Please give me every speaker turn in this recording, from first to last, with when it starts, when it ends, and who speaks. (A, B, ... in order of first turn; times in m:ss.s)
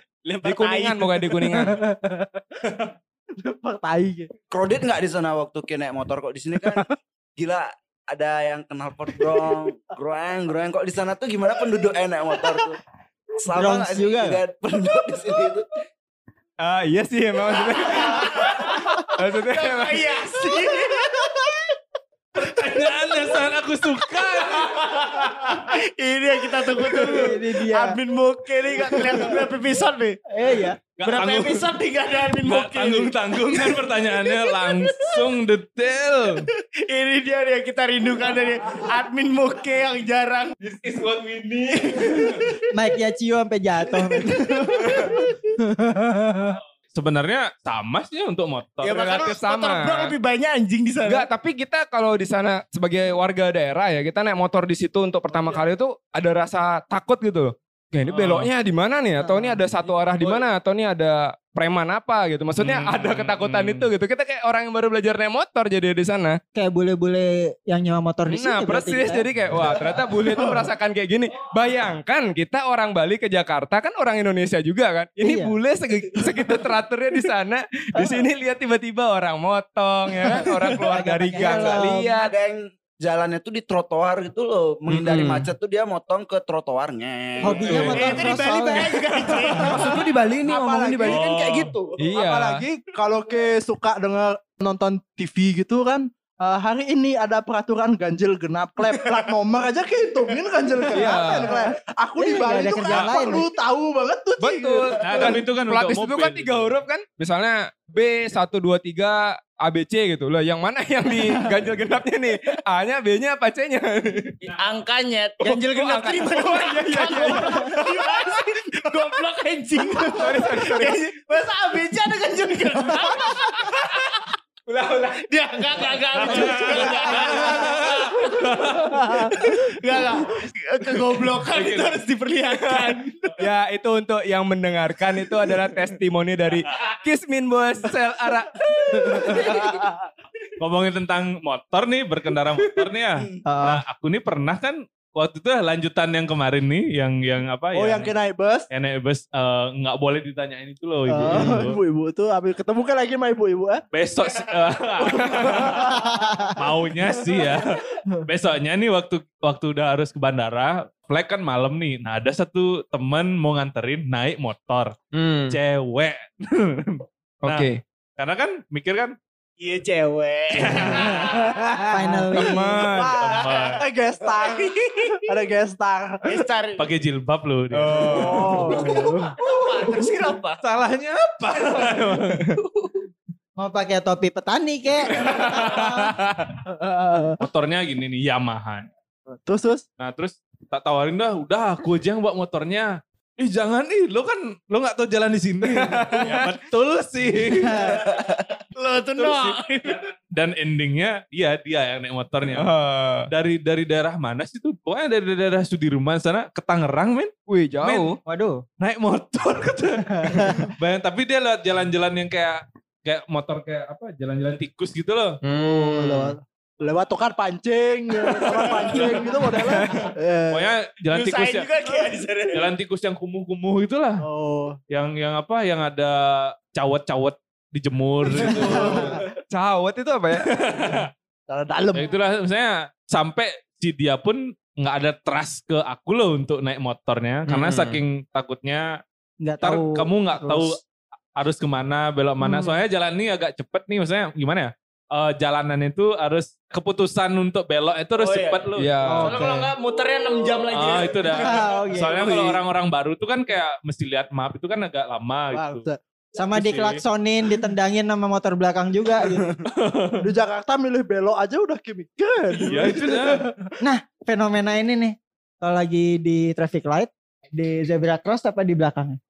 0:00.2-0:01.4 A
0:00.4-0:01.8 B
0:01.5-0:04.3 C
0:04.5-0:12.8 D
0:13.4-0:15.7 D
0:13.5-0:14.4 E
0:16.6-0:20.1 B
0:17.9-0:21.2 A
0:22.3-0:25.5 F
0:24.5-0:30.2 A
0:27.0-0:28.0 E
0:30.3-0:30.8 E
0:31.0-0:36.5 F
0:31.0-0:35.3 A
0:36.7-0:40.6 A
0:40.7-0:42.1 B
0:41.9-0:42.6 A
0:42.7-0:44.6 E
0:44.2-0:45.2 A
0:45.1-0:46.6 C
0:46.9-0:49.0 F
0:48.8-0:51.3 A
0:48.9-0:50.1 B
0:51.0-1:06.4 B
0:58.1-0:58.5 F
0:59.2-0:59.6 E
1:02.6-1:03.9 F
1:06.5-1:09.2 E
1:08.3-1:22.3 B
1:15.2-1:15.5 E
1:20.7-1:22.1 E
1:22.1-1:28.0 D
1:24.9-1:25.5 B
1:27.4-1:29.0 E
1:27.5-1:28.3 F
1:27.7-1:30.0 A
1:29.5-1:32.0 D
1:29.7-1:30.0 C
1:30.5-1:31.2 C
1:30.7-1:31.2 A
1:31.0-1:31.7 F
1:32.0-1:32.6 B
1:32.1-1:45.4 C
1:40.9-1:41.6 B
1:42.2-1:43.4 E
1:44.4-1:54.4 B
1:45.0-1:46.7 F
1:54.4-2:04.3 A
1:55.4-1:58.1 B
2:00.1-2:01.0 B
2:04.7-2:05.2 B
2:05.1-2:13.3 A
2:05.8-2:07.5 B
2:06.2-2:09.0 F
2:06.4-2:07.6 C
2:08.9-2:09.3 C
2:11.4-2:12.0 F
2:13.4-2:19.8 B
2:19.1-2:19.9 C
2:20.6-2:28.1 F
2:27.7-2:28.7 C
2:28.7-2:31.8 F
2:31.1-2:33.8 C
2:31.3-2:31.6 B
2:33.9-2:45.0 F
2:35.1-2:36.4 C
2:37.3-2:37.6 C
2:45.1-2:45.6 B
2:45.5-2:49.2 F
2:47.4-2:47.8 B
2:49.6-2:51.6 A
2:50.6-2:51.3 F
2:50.8-2:56.4 C
2:51.9-2:52.8 E
2:52.3-2:53.2 B
2:53.0-2:53.8 F
2:53.3-2:55.3 A
2:56.2-2:56.8 A
2:56.8-2:58.8 F
2:57.7-2:58.8 B
2:58.0-2:59.4 C
2:58.8-3:00.6 A
3:00.6-3:02.6 F
3:03.6-3:06.2 E
3:05.1-3:06.1 F
3:06.6-3:07.4 C
3:07.4-3:08.9 F
3:09.3-3:09.8 C
3:10.0-3:18.3 F
3:15.6-3:16.5 B
3:18.1-3:20.0 A
3:19.1-3:22.7 F
3:22.5-3:23.3 B
3:23.3-3:27.3 F
3:27.5-3:28.2 B
3:27.8-3:28.1 F
3:28.2-3:28.6 E
3:28.8-3:35.4 F
3:30.3-3:30.7 E
3:35.4-3:36.3 B
3:35.5-3:40.7 C
3:38.3-3:39.3 F
3:39.6-3:40.0 B
3:40.5-3:41.7 F
3:41.1-3:42.7 A
3:42.5-3:44.2 F
3:44.2-3:44.8 C
3:44.9-3:49.2 F
3:48.3-3:49.2 C
3:48.7-3:50.5 B
3:50.3-3:51.1 F
3:51.5-3:52.1 C
3:51.9-3:59.0 F
3:57.5-3:58.0 B
3:59.4-4:00.7 E
3:59.6-4:00.8 F
4:01.4-4:09.2 F
4:02.4-4:02.8 E
4:08.2-4:08.6 A
4:08.8-4:09.4 B
4:09.0-4:09.7 E
4:09.2-4:11.6 A
4:10.7-4:15.8 F
4:11.3-4:12.5 E
4:15.5-4:16.0 C
4:16.4-4:19.6 E
4:16.5-4:17.0 F
4:19.6-4:20.2 F
4:20.2-4:23.6 C
4:22.6-4:23.5 F
4:23.8-4:29.2 E